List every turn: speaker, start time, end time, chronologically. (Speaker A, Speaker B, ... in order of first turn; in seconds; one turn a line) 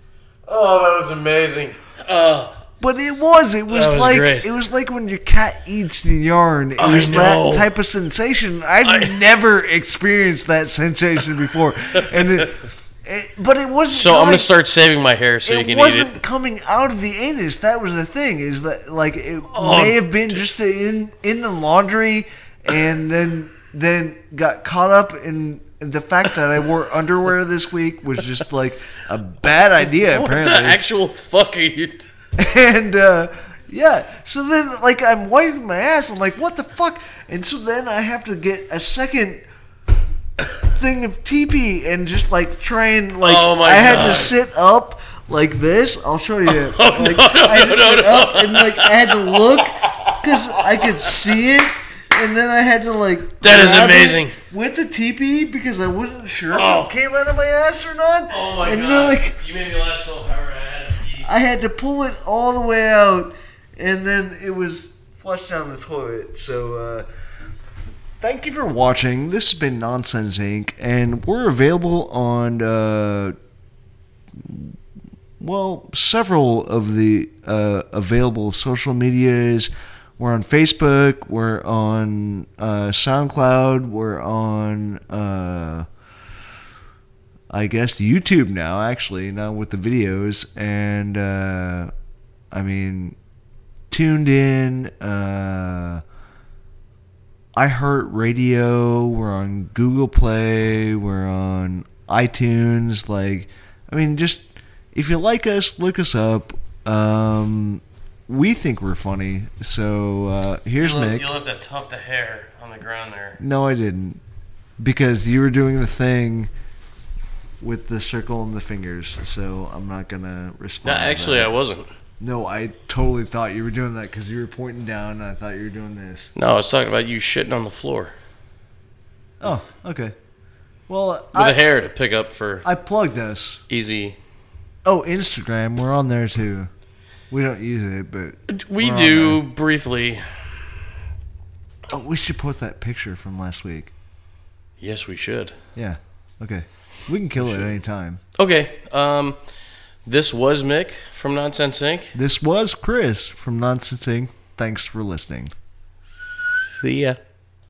Speaker A: 0.5-2.6
Speaker B: 2.8-14.5
Speaker A: 3.7-4.5
Speaker A: 6.8-7.7
Speaker A: 8.8-9.2
Speaker A: 13.9-16.2
Speaker B: 15.4-30.8
Speaker A: 19.5-20.4
Speaker A: 29.8-32.1
Speaker B: 32.4-39.5
Speaker B: 40.5-59.4
Speaker A: 43.2-44.3
Speaker A: 46.5-51.2
Speaker A: 53.4-54.4
Speaker A: 56.5-56.9
Speaker A: 58.3-61.3
Speaker B: 61.2-67.1
Speaker B: 68.2-73.3
Speaker B: 74.3-74.8
Speaker B: 75.4-85.9
Speaker B: 87.5-91.9
Speaker B: 92.5-93.2
Speaker B: 93.9-96.0
Speaker B: 97.6-111.3
Speaker A: 110.8-113.4
Speaker B: 113.4-114.2
Speaker B: 114.8-116.5
Speaker B: 117.6-121.5
Speaker A: 120.8-121.9
Speaker B: 122.2-126.3
Speaker A: 126.3-128.1
Speaker B: 129.4-130.2
Speaker B: 130.9-131.6
Speaker A: 131.3-132.7
Speaker B: 132.6-133.6
Speaker A: 133.7-134.2
Speaker B: 134.8-136.7
Speaker B: 137.3-139.4
Speaker A: 138.5-140.6
Speaker B: 141.9-143.9
Speaker A: 144.8-145.6
Speaker B: 145.8-148.2
Speaker A: 147.4-147.8
Speaker A: 148.4-149.4
Speaker A: 150.1-152.2
Speaker B: 152.1-155.5
Speaker A: 156.5-157.2